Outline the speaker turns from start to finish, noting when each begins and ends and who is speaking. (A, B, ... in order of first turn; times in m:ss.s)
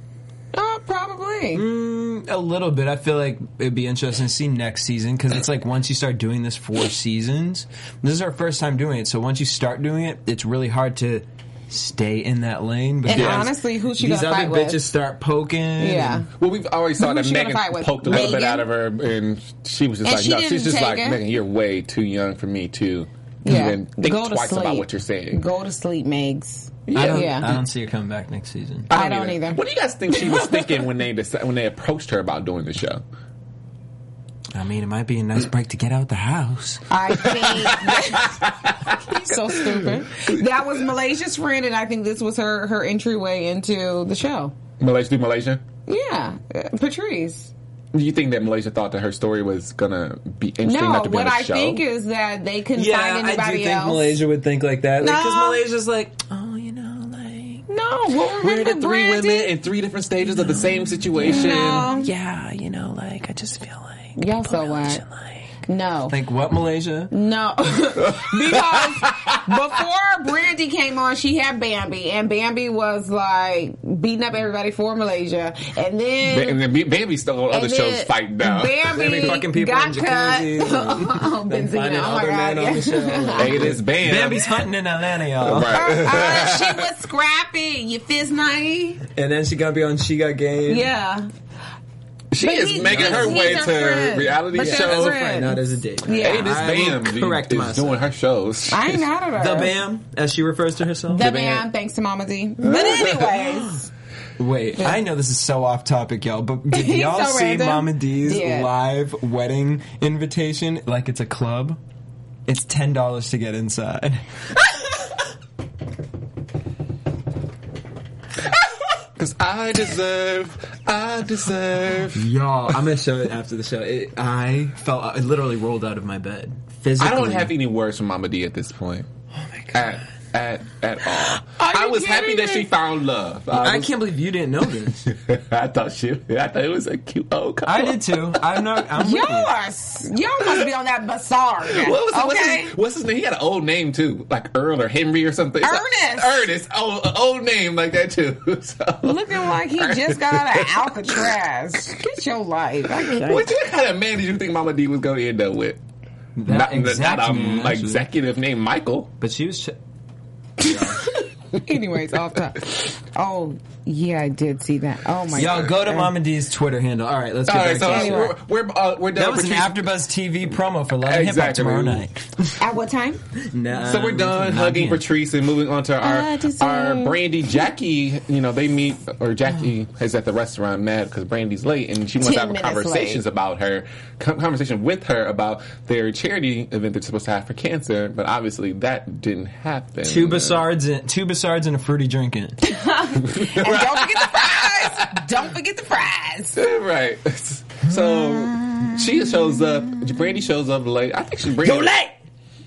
0:00.5-0:01.6 A
0:01.5-0:16.2 B
0:13.0-0:14.8 A
0:13.1-0:13.5 C
0:15.8-0:16.3 A
0:16.4-0:25.4 C
0:17.0-0:18.7 A
0:20.0-0:21.2 A
0:23.4-0:27.5 A
0:26.9-0:27.5 C
0:26.9-0:28.9 B
0:28.9-0:33.0 C
0:28.9-0:29.6 A
0:34.5-0:36.9 B
0:36.9-0:44.5 A
0:37.1-0:40.4 C
0:44.8-0:45.6 C
0:45.9-0:47.5 A
0:47.9-0:51.8 C
0:50.6-0:54.2 A
0:52.7-0:57.6 B
0:55.0-0:55.6 A
0:57.7-0:59.5 A
0:58.4-1:01.9 C
1:00.3-1:05.5 B
1:01.2-1:02.1 A
1:04.2-1:05.0 A
1:05.6-1:06.2 A
1:06.1-1:07.1 B
1:07.1-1:16.6 A
1:08.0-1:09.6 C
1:16.2-1:19.4 C
1:17.5-1:23.8 A
1:18.9-1:25.8 B
1:23.4-1:24.6 C
1:25.4-1:26.9 C
1:25.7-1:29.0 A
1:29.1-1:30.9 B
1:30.7-1:31.3 A
1:32.3-1:35.2 C
1:32.4-1:36.5 A
1:32.8-1:33.6 B
1:34.6-1:38.0 B
1:36.1-1:39.0 C
1:38.7-1:39.7 A
1:39.4-1:41.3 B
1:41.1-1:43.9 A
1:41.2-1:41.6 C
1:42.6-1:43.3 C
1:44.4-1:51.8 B
1:46.7-1:48.7 A
1:52.5-1:54.9 B
1:59.2-2:02.3 C
2:02.1-2:07.5 B
2:07.0-2:09.1 C
2:09.3-2:10.0 B
2:09.7-2:13.9 C
2:11.4-2:12.7 A
2:13.5-2:15.1 B
2:15.0-2:18.8 C
2:17.6-2:19.5 B
2:19.0-2:22.7 A
2:21.6-2:31.2 C
2:25.6-2:26.4 A
2:29.0-2:33.5 A
2:33.1-2:35.8 C
2:36.4-2:38.0 B
2:36.5-2:39.1 C
2:39.2-2:39.8 B
2:40.6-2:41.0 B
2:41.0-2:46.1 A
2:45.3-2:48.3 B
2:47.5-2:49.9 C
2:47.8-2:48.4 A
2:49.1-2:52.6 B
2:51.0-2:52.0 C
2:52.6-2:53.2 A
2:53.4-2:55.0 B
2:53.8-3:10.7 C
2:56.0-2:57.2 A
3:02.2-3:03.2 A
3:10.0-3:12.6 B
3:12.6-3:16.6 A
3:13.2-3:15.2 C
3:16.5-3:21.9 C
3:17.9-3:19.1 B
3:21.6-3:22.1 B